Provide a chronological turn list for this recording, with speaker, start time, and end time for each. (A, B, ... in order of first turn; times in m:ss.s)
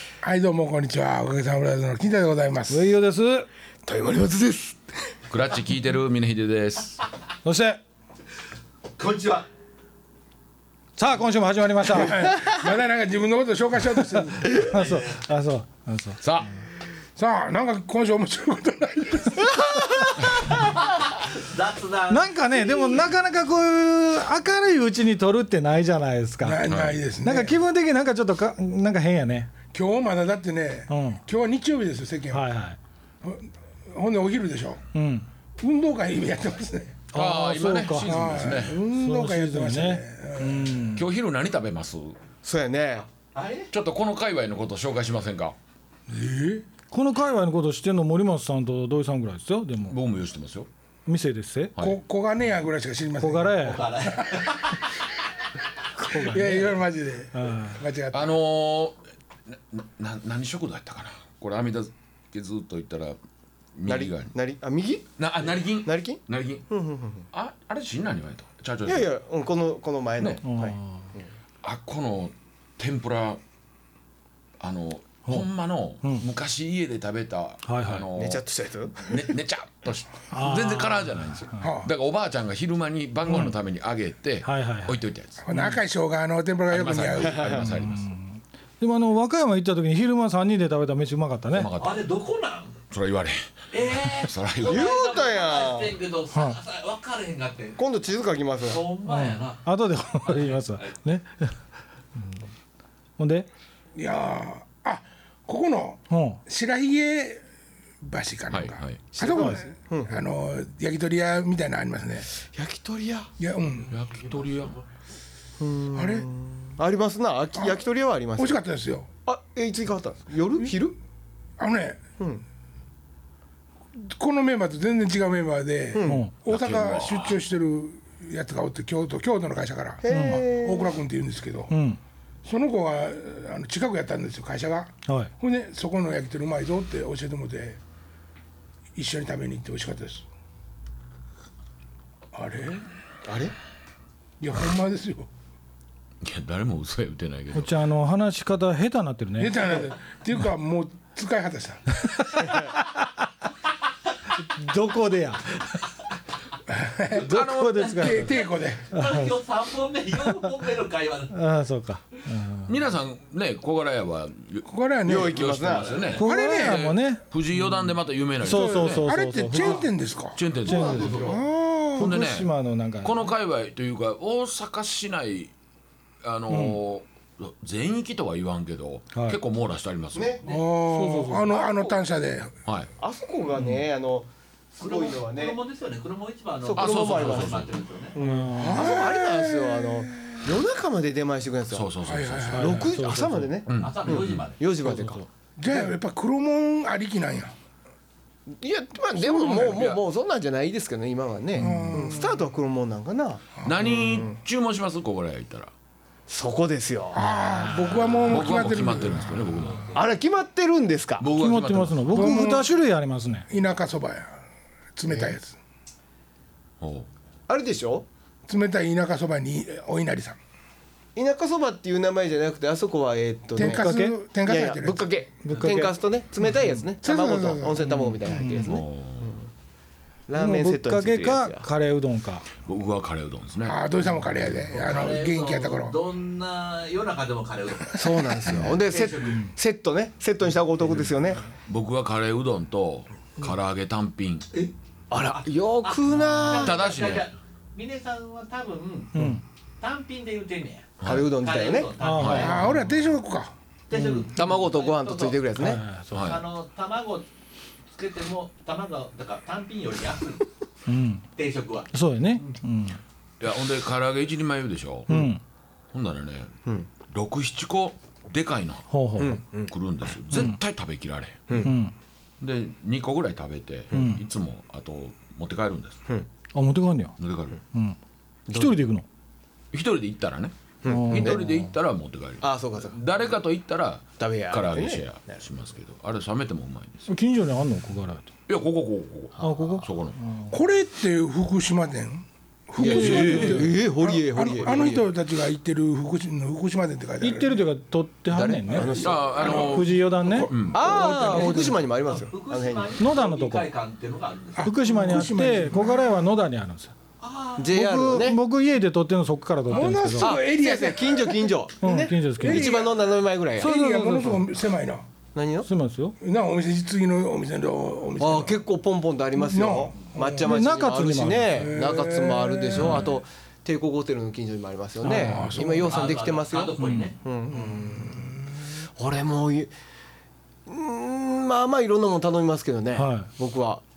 0:00.2-0:02.9 A
0:02.7-0:03.5 B
0:03.8-0:05.1 C
0:05.3-0:07.0 D
0:07.4-0:07.8 B
0:09.0-0:09.3 E
0:09.1-0:09.4 C
0:11.0-0:12.3 B
0:11.9-0:14.6 A
0:14.5-0:16.2 B
0:16.2-0:16.5 D
0:17.2-0:20.3 A
0:19.6-0:20.3 C
0:20.9-0:22.9 E
0:22.1-0:26.6 B
0:26.4-0:27.6 A
0:26.7-0:27.0 D
0:27.2-0:29.5 B
0:29.7-0:32.4 A
0:30.9-0:31.2 B
0:32.3-0:32.8 B
0:33.2-0:34.8 A
0:34.9-0:35.2 B
0:35.6-0:37.0 A
0:37.1-0:38.3 B
0:37.1-0:38.8 D
0:38.0-0:40.9 A
0:38.9-0:41.0 B
0:41.0-0:42.2 D
0:42.4-0:43.1 C
0:43.3-0:43.7 E
0:43.7-0:45.6 D
0:46.1-0:46.6 A
0:46.9-0:50.0 B
0:49.9-0:50.7 D
0:51.0-0:51.8 B
0:51.8-0:54.5 A
0:53.2-0:53.9 B
0:53.6-0:54.9 E
0:56.0-0:56.8 B
0:56.1-0:58.3 A
0:57.3-0:57.8 B
0:58.1-1:03.2 D
1:03.8-1:04.3 D
1:03.9-1:05.1 C
1:05.2-1:06.6 D
1:05.7-1:07.2 C
1:07.3-1:09.1 D
1:08.8-1:11.2 C
1:10.4-1:11.1 B
1:11.6-1:13.4 D
1:14.6-1:18.4 D
1:17.6-1:18.1 B
1:18.2-1:19.3 C
1:19.1-1:25.4 D
1:20.3-1:21.6 B
1:21.6-1:21.9 A
1:23.2-1:23.5 B
1:24.4-1:25.8 B
1:25.4-1:27.7 A
1:26.7-1:28.1 D
1:27.4-1:31.7 B
1:31.5-1:32.0 D
1:31.8-1:32.8 E
1:32.9-1:33.5 D
1:33.7-1:37.8 E
1:34.2-1:34.9 D
1:34.6-1:36.0 C
1:37.8-1:38.8 C
1:38.6-1:39.6 E
1:39.0-1:41.6 B
1:40.2-1:40.9 E
1:43.2-1:43.5 B
1:43.9-1:47.4 A
1:46.1-1:46.4 B
1:48.0-1:52.3 A
1:48.5-1:49.0 D
1:49.1-1:50.2 C
1:52.5-1:53.3 C
1:53.4-1:53.9 A
1:53.9-1:54.8 E
1:53.9-1:54.8 D
1:55.6-1:58.6 C
1:55.9-1:56.3 A
1:57.6-1:57.8 A
1:58.4-1:59.1 A
1:59.2-2:01.0 C
2:01.6-2:02.0 A
2:04.0-2:11.8 A
2:05.9-2:06.2 C
2:06.0-2:06.4 B
2:06.5-2:07.4 D
2:10.0-2:10.9 C
2:10.1-2:10.4 B
2:11.7-2:12.0 B
2:12.4-2:17.8 A
2:18.9-2:20.3 A
2:22.3-2:22.8 A
2:23.2-2:23.5 C
2:24.4-2:25.3 A
2:26.2-2:27.7 D
2:27.5-2:29.7 B
2:29.4-2:32.0 A
2:32.0-2:33.3 B
2:34.4-2:35.6 B
2:36.7-2:37.3 A
2:37.1-2:38.1 D
2:37.2-2:38.3 B
2:37.8-2:41.3 E
2:38.0-2:38.9 A
2:38.9-2:39.4 B
2:41.3-2:42.7 B
2:42.7-2:49.1 D
2:44.6-2:45.4 A
2:45.0-2:46.0 C
2:45.7-2:46.2 E
2:46.2-2:47.8 B
2:46.2-2:47.0 A
2:48.4-2:49.8 B
2:48.4-2:50.4 A
2:50.3-2:51.1 D
2:50.6-2:51.3 B
2:50.6-2:51.4 C
2:50.9-2:51.3 E
2:51.1-2:52.2 A
2:51.9-2:53.1 B
2:52.0-2:52.5 D
2:53.0-2:55.5 D
2:56.2-3:00.4 D
2:56.5-2:56.8 B
2:59.1-2:59.4 B
3:00.1-3:00.4 C
3:00.4-3:00.6 E
3:00.4-3:02.6 A
3:00.9-3:01.5 B
3:03.0-3:05.6 C
3:04.8-3:08.2 E
3:06.6-3:11.9 C
3:06.7-3:07.8 D
3:08.2-3:08.9 B
3:08.6-3:10.5 A
3:11.7-3:12.9 D
3:12.0-3:12.9 A
3:12.6-3:13.6 B
3:12.6-3:15.8 C
3:13.7-3:14.5 D
3:13.8-3:14.6 E
3:14.8-3:15.2 B
3:15.6-3:17.5 A
3:18.5-3:24.3 C
3:19.1-3:19.8 A
3:19.6-3:20.0 D
3:21.5-3:22.4 A
3:21.6-3:21.9 B
3:23.6-3:25.7 D
3:26.3-3:28.2 C
3:27.1-3:29.8 A
3:27.8-3:30.0 D
3:29.9-3:31.3 C
3:31.2-3:32.3 D
3:31.3-3:33.5 B
3:32.1-3:32.7 A
3:33.5-3:34.4 A
3:34.9-3:35.6 A
3:36.8-3:37.1 D
3:37.5-3:38.0 C
3:38.5-3:40.4 A
3:41.2-3:43.9 C
3:43.6-3:44.2 B
3:43.6-3:45.1 A
3:44.4-3:49.5 C
3:45.4-3:46.0 B
3:47.0-3:48.0 A
3:48.3-3:48.6 B
3:48.4-3:49.3 D
3:50.3-3:51.7 C
3:50.4-3:52.4 B
3:52.6-3:53.8 D
3:53.6-3:56.0 A
3:54.7-3:59.5 E
3:57.9-4:01.4 C
4:01.7-4:04.5 D
4:05.1-4:06.9 C
4:05.8-4:12.6 E
4:06.5-4:07.3 D
4:09.1-4:09.4 B
4:11.0-4:11.3 D
4:11.0-4:11.9 C
4:12.0-4:12.9 B
4:12.2-4:12.7 D
4:12.3-4:13.5 A
4:13.9-4:15.4 E
4:13.9-4:14.3 B
4:14.3-4:15.8 C
4:15.5-4:16.2 B
4:16.1-4:16.4 D
4:16.1-4:17.3 E
4:17.9-4:20.5 E
4:20.9-4:21.2 B
4:21.4-4:22.5 E
4:21.9-4:23.0 B
4:23.4-4:25.2 D
4:25.1-4:25.4 B
4:25.9-4:26.5 D
4:27.1-4:28.9 D
4:28.9-4:29.4 B
4:29.2-4:29.7 C
4:29.7-4:31.6 D
4:31.5-4:31.7 C
4:31.6-4:31.9 B
4:32.4-4:36.0 D
4:33.9-4:34.2 B
4:36.5-4:37.1 B
4:37.2-4:37.6 D
4:38.5-4:38.7 C
4:38.5-4:39.0 B
4:39.7-4:47.0 D
4:40.8-4:41.4 C
4:40.9-4:41.7 B
4:42.4-4:43.0 C
4:44.2-4:45.4 C
4:47.0-4:48.3 B
4:48.5-4:50.2 D
4:49.4-4:50.5 B
4:50.5-4:57.6 A
4:52.8-4:55.0 C
4:52.8-4:53.6 B
4:52.8-4:53.7 D
4:57.2-5:01.8 B
4:58.3-5:01.6 D
4:58.7-4:59.6 C
4:59.4-5:01.5 A
5:00.7-5:03.0 C
5:02.1-5:05.0 E
5:03.0-5:03.7 B
5:04.6-5:06.9 B
5:04.6-5:06.0 A
5:07.2-5:07.6 E
5:07.6-5:08.4 C
5:07.7-5:10.4 B
5:09.7-5:11.5 A
5:10.2-5:14.0 C
5:11.8-5:12.8 B
5:12.4-5:13.0 A
5:13.6-5:14.4 B
5:13.6-5:15.0 A
5:15.3-5:15.7 C
5:15.6-5:16.2 B
5:16.2-5:18.6 A
5:18.2-5:28.2 C
5:19.4-5:20.6 A
5:20.4-5:21.7 B
5:21.5-5:23.1 A
5:22.8-5:23.1 B
5:25.0-5:25.5 B
5:25.0-5:26.0 A
5:25.8-5:27.2 E
5:26.8-5:27.1 B
5:27.5-5:28.5 A
5:29.0-5:29.7 C
5:30.7-5:33.8 C
5:32.9-5:33.3 B